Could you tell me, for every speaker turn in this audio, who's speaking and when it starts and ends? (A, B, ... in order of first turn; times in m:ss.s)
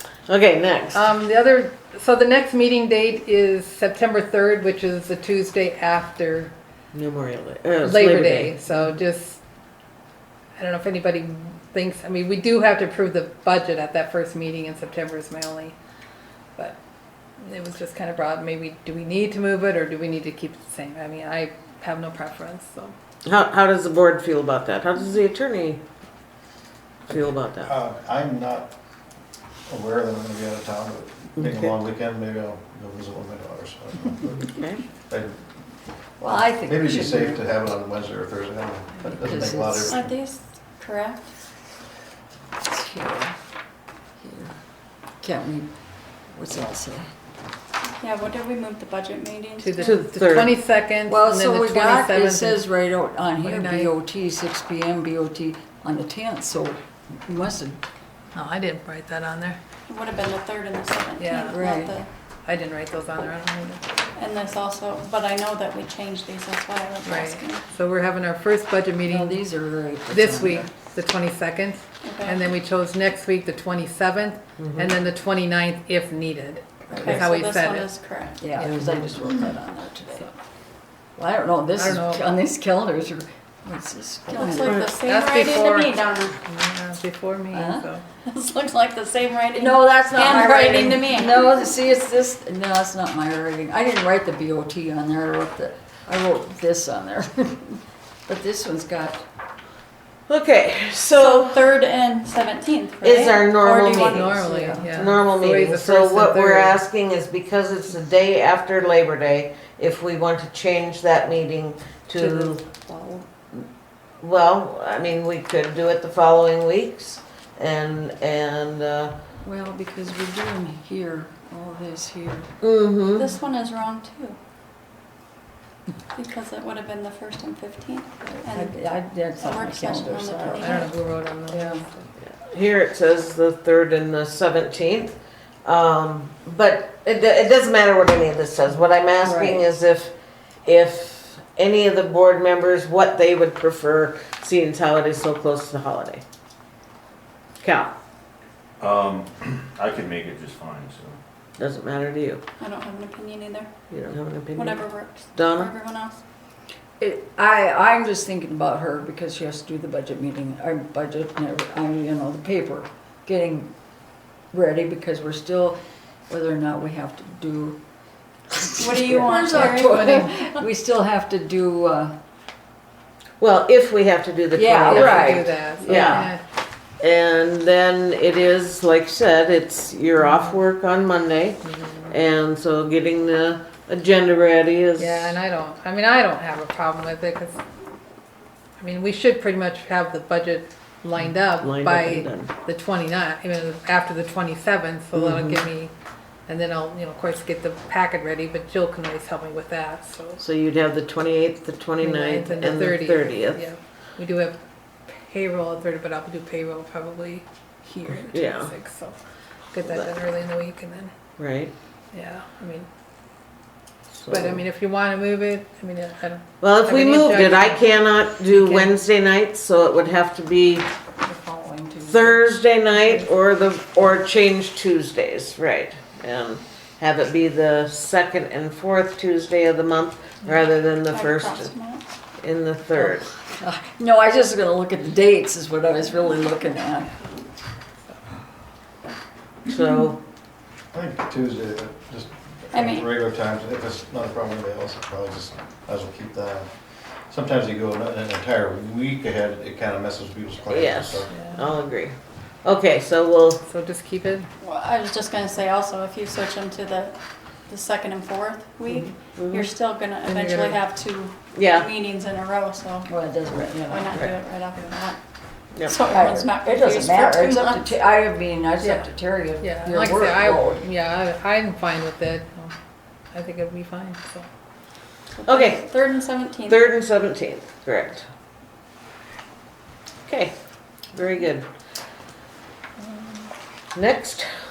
0:00.3-0:01.0 A
0:00.9-0:06.5 B
0:06.9-0:08.5 A
0:07.8-0:09.4 B
0:10.6-0:15.7 B
0:17.4-0:22.9 B
0:23.3-0:25.8 A
0:27.1-0:27.7 A
0:27.6-0:28.7 C
0:29.7-0:34.6 C
0:31.4-0:31.7 A
0:34.5-0:34.8 A
0:35.1-0:35.4 C
0:36.2-0:37.4 D
0:36.2-0:40.0 C
0:39.0-0:40.1 D
0:39.9-0:41.3 E
0:42.6-0:43.3 D
0:44.2-0:44.5 D
0:45.2-0:45.7 D
0:46.3-0:47.1 D
0:48.0-0:50.0 E
0:49.6-0:52.7 B
0:49.8-0:50.5 A
0:51.1-0:57.8 D
0:53.4-0:53.9 B
0:58.3-0:59.6 B
0:59.9-1:02.1 E
1:01.2-1:01.6 B
1:01.5-1:01.9 D
1:02.4-1:03.8 B
1:04.2-1:07.6 E
1:07.0-1:09.4 B
1:09.0-1:10.7 D
1:10.1-1:17.9 B
1:12.0-1:12.4 E
1:14.6-1:14.9 A
1:16.9-1:17.2 D
1:16.9-1:18.4 E
1:18.4-1:20.3 D
1:18.6-1:19.0 B
1:21.2-1:24.8 D
1:21.7-1:22.2 B
1:24.3-1:26.4 E
1:24.6-1:25.0 A
1:25.0-1:25.9 B
1:26.4-1:28.0 B
1:27.5-1:27.9 D
1:28.3-1:31.6 E
1:29.5-1:39.2 D
1:40.3-1:41.7 A
1:41.2-1:44.8 E
1:43.0-1:44.3 A
1:44.2-1:46.9 B
1:44.9-1:52.6 A
1:52.1-1:53.6 D
1:54.2-1:59.1 A
1:59.4-2:02.5 D
2:02.6-2:03.2 A
2:03.1-2:04.4 E
2:06.1-2:10.9 E
2:08.2-2:10.8 D
2:10.5-2:12.1 B
2:11.5-2:11.8 D
2:12.2-2:15.1 A
2:15.6-2:20.1 A
2:19.2-2:19.6 D
2:20.6-2:26.2 A
2:27.6-2:27.9 A
2:28.8-2:31.2 F
2:31.6-2:32.4 A
2:32.6-2:33.7 E
2:33.9-2:35.7 A
2:34.5-2:36.2 E
2:37.0-2:43.7 D
2:44.5-2:47.8 D
2:48.5-2:52.1 D
2:48.8-2:50.6 E
2:53.4-2:56.3 A
2:54.5-2:56.3 D
2:54.9-2:56.4 B
2:57.0-3:01.6 A
3:00.2-3:00.6 B
3:01.6-3:02.1 B
3:02.1-3:05.4 A
3:05.0-3:07.6 B
3:08.8-3:15.9 B
3:11.6-3:12.5 A
3:15.1-3:15.6 A
3:16.5-3:20.4 B
3:20.4-3:23.6 A
3:22.0-3:24.6 B
3:25.1-3:29.2 B
3:28.3-3:28.7 A
3:29.7-3:31.1 B
3:31.4-3:31.7 A
3:32.1-3:32.9 B
3:34.2-3:34.6 A
3:34.3-3:38.9 B
3:36.6-3:40.8 A
3:41.2-3:42.4 D
3:42.0-3:51.7 A
3:51.1-3:52.1 E
3:52.4-3:53.3 A
3:53.6-3:57.1 D
3:59.7-4:00.2 A
4:00.9-4:06.7 C
4:02.7-4:03.1 E
4:07.3-4:11.3 C
4:10.7-4:13.6 A
4:11.3-4:11.8 B
4:13.6-4:14.5 B
4:14.6-4:23.1 E
4:18.9-4:19.7 A
4:20.2-4:20.8 B
4:21.5-4:21.9 A
4:23.0-4:24.3 D
4:23.8-4:25.2 E
4:25.8-4:28.0 E
4:26.1-4:30.9 D
4:28.8-4:32.7 B
4:33.3-4:34.5 B
4:35.3-4:36.8 E
4:35.4-4:35.8 A
4:36.7-4:38.3 A
4:40.2-4:40.5 A
4:41.1-4:41.6 A
4:43.9-4:44.5 A